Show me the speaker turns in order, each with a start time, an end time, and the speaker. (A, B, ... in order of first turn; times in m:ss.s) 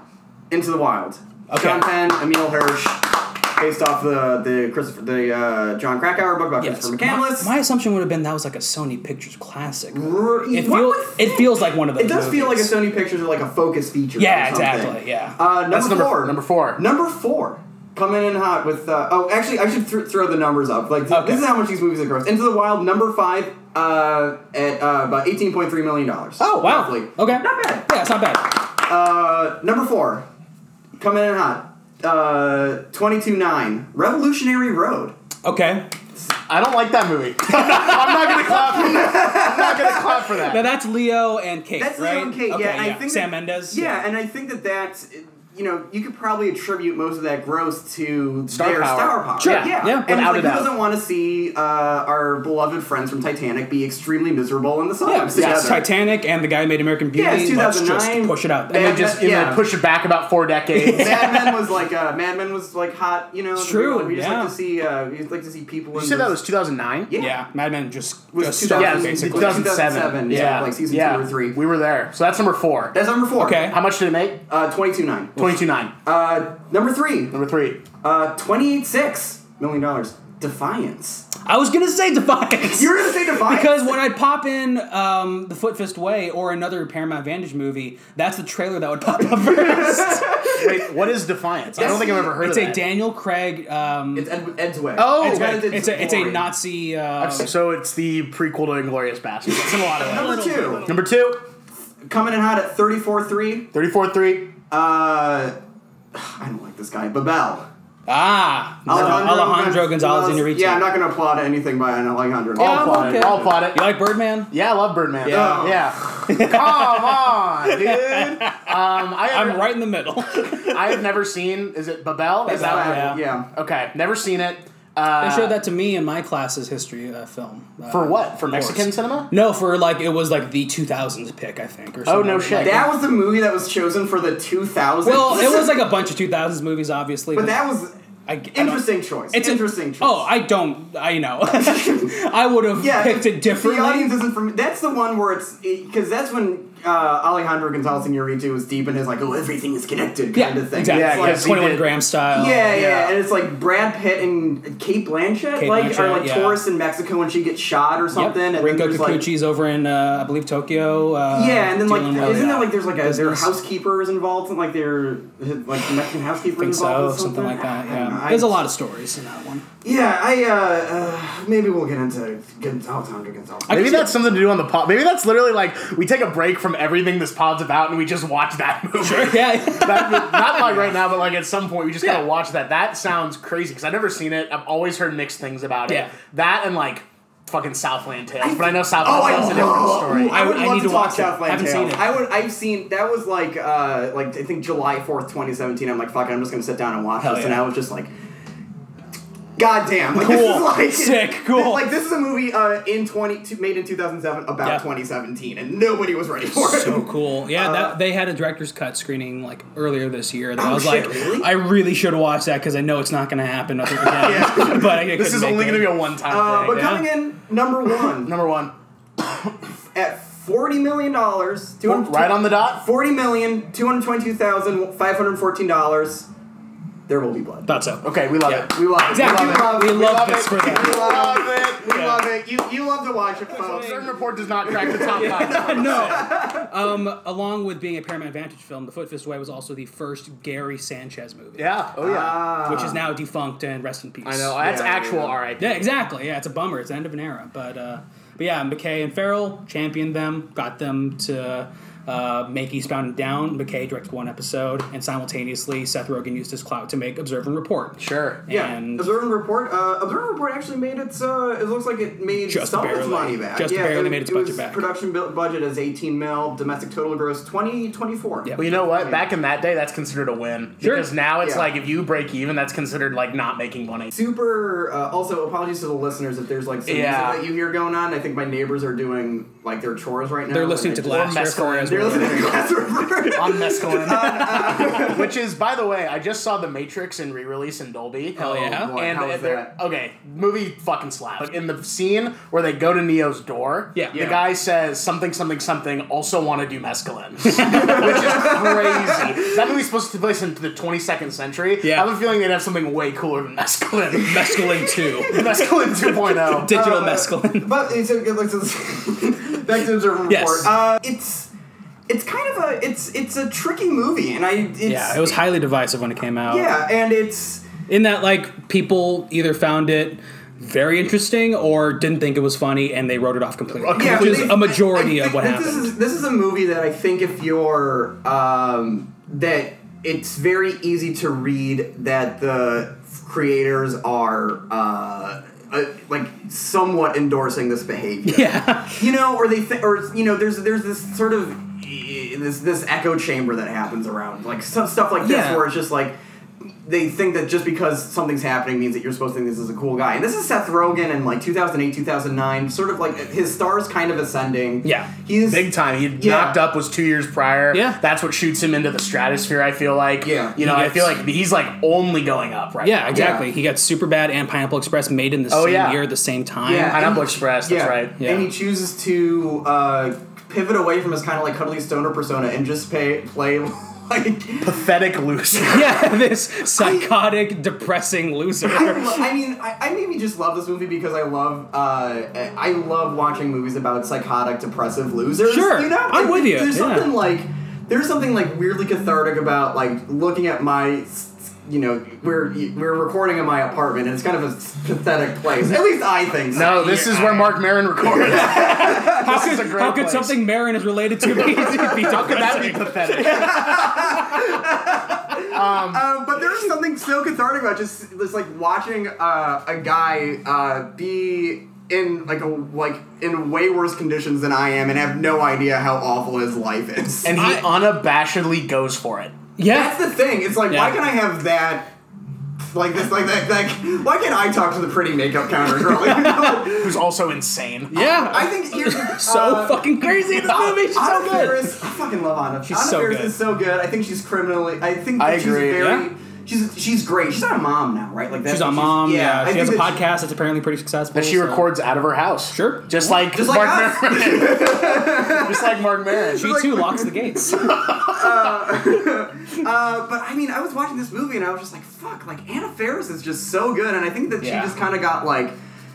0:00.5-0:07.5 A
0:01.5-0:01.9 B
0:06.6-0:12.7 B
0:09.9-0:27.9 A
0:14.2-0:15.4 B
0:15.7-0:16.8 C
0:21.1-0:21.5 B
0:26.4-0:28.6 B
0:28.7-0:30.2 A
0:31.0-0:35.1 A
0:35.4-0:35.9 B
0:36.5-0:40.6 C
0:37.8-0:40.4 A
0:40.4-0:44.0 B
0:41.8-0:55.8 A
0:48.5-0:50.7 C
0:49.4-0:50.1 B
0:55.0-0:59.2 B
0:55.3-0:55.8 C
0:57.1-0:59.6 A
0:58.7-1:01.6 C
1:00.7-1:01.4 B
1:00.9-1:06.4 A
1:03.5-1:04.5 B
1:05.9-1:07.1 C
1:07.1-1:07.4 A
1:07.2-1:09.8 B
1:08.3-1:11.6 A
1:08.7-1:13.0 C
1:10.3-1:10.6 B
1:12.9-1:13.7 A
1:13.4-1:13.8 B
1:13.5-1:14.4 C
1:14.5-1:17.3 A
1:15.4-1:15.9 C
1:17.3-1:17.8 C
1:18.0-1:21.3 A
1:21.4-1:30.5 B
1:22.7-1:23.9 A
1:29.2-1:30.9 A
1:30.5-1:32.9 C
1:31.7-1:34.3 B
1:31.8-1:32.3 A
1:34.1-1:36.5 A
1:35.0-1:35.7 C
1:35.2-1:37.5 B
1:37.2-1:41.4 C
1:39.8-1:40.9 B
1:39.9-1:40.8 A
1:42.0-1:43.7 A
1:43.7-1:44.5 C
1:44.7-1:45.5 A
1:46.1-1:47.7 A
1:48.1-1:50.9 B
1:48.9-1:53.6 A
1:52.6-1:53.9 C
1:52.6-1:54.5 B
1:54.5-1:59.7 C
1:55.2-2:01.0 B
1:55.2-1:55.8 A
2:00.4-2:05.6 C
2:02.4-2:03.5 A
2:02.5-2:03.2 B
2:05.2-2:12.9 B
2:07.9-2:09.3 C
2:12.0-2:12.9 C
2:12.5-2:15.8 A
2:15.0-2:17.6 B
2:17.3-2:17.9 A
2:18.3-2:24.1 B
2:18.5-2:20.3 A
2:21.5-2:22.1 A
2:22.8-2:31.5 A
2:30.3-2:33.1 B
2:30.8-2:31.9 C
2:32.3-2:39.3 A
2:35.6-2:36.6 B
2:38.1-2:43.5 B
2:41.3-2:48.7 A
2:46.6-2:49.6 B
2:49.8-2:54.2 A
2:53.7-2:54.1 B
2:53.7-3:10.4 C
2:59.0-3:01.0 B
3:05.9-3:06.1 B
3:08.4-3:18.1 A
3:09.1-3:12.2 B
3:17.2-3:17.6 B
3:19.6-3:27.9 A
3:20.1-3:21.9 B
3:26.5-3:36.0 B
3:30.6-3:31.5 A
3:34.1-3:34.9 A
3:34.1-3:37.0 C
3:36.3-3:38.3 A
3:36.7-3:37.1 B
3:38.1-3:39.5 C
3:39.9-3:46.3 A
3:41.8-3:42.8 C
3:47.1-3:47.7 A
3:47.7-3:51.2 B
3:48.0-3:51.9 C
3:48.6-3:54.1 A
3:51.8-3:52.2 B
3:53.5-3:56.2 C
3:54.6-3:56.7 A
3:55.0-4:01.6 B
4:01.6-4:02.6 C
4:02.0-4:03.0 A
4:02.6-4:04.6 B
4:04.2-4:05.9 C
4:04.6-4:05.4 A
4:05.6-4:19.1 B
4:18.0-4:18.4 C
4:18.5-4:29.2 A
4:22.5-4:24.8 B
4:28.4-4:28.8 B
4:28.6-4:34.1 C
4:30.8-4:31.1 B
4:31.4-4:31.7 A
4:34.1-4:41.3 A
4:36.9-4:37.4 C
4:40.5-4:42.7 B
4:41.0-4:42.6 C
4:41.8-4:45.3 A
4:43.2-5:06.7 C
4:44.1-4:44.9 B
4:48.4-4:49.0 B
4:48.4-4:49.7 A
4:53.9-4:54.4 B
4:57.4-4:58.2 B
4:57.6-4:59.6 A
5:01.8-5:02.1 B
5:04.1-5:07.7 B
5:06.6-5:11.5 A
5:10.3-5:10.7 B
5:12.1-5:15.4 A
5:14.8-5:16.8 B
5:16.4-5:17.7 A
5:17.9-5:25.9 B
5:23.8-5:24.6 C
5:23.9-5:46.1 A
5:38.3-5:39.0 B
5:45.2-5:45.6 B
5:46.7-5:56.6 A
5:54.8-5:55.1 B
5:55.4-6:03.1 C
5:57.7-5:58.0 B
6:00.2-6:00.6 A
6:00.6-6:01.2 B
6:02.8-6:07.0 B
6:03.1-6:03.5 A
6:05.5-6:06.0 C
6:06.6-6:14.8 A
6:06.7-6:08.2 C
6:08.2-6:08.5 B
6:14.6-6:16.0 C
6:15.7-6:19.2 B
6:16.8-6:17.1 A
6:18.6-6:37.0 A
6:25.5-6:27.2 B
6:36.5-6:40.4 C
6:36.6-6:37.6 B
6:38.0-6:39.5 A
6:38.3-6:44.5 B
6:41.3-6:42.0 A
6:41.4-6:43.7 C
6:43.1-6:57.4 A
6:45.4-6:46.0 C
6:57.2-6:59.4 C
6:57.3-6:57.6 B
6:59.6-7:00.0 B
6:59.7-7:01.9 A
7:00.7-7:01.0 B
7:02.6-7:07.0 A
7:06.4-7:08.2 C
7:07.9-7:11.7 B
7:08.0-7:20.0 A
7:10.5-7:10.8 C
7:12.6-7:13.4 B
7:15.2-7:15.9 C
7:15.8-7:16.1 B
7:18.5-7:21.7 B
7:21.1-7:26.6 C
7:22.5-7:23.2 B
7:23.2-7:27.1 A
7:26.3-7:27.9 B
7:27.6-7:28.3 C
7:27.9-7:35.5 A
7:34.4-7:34.7 B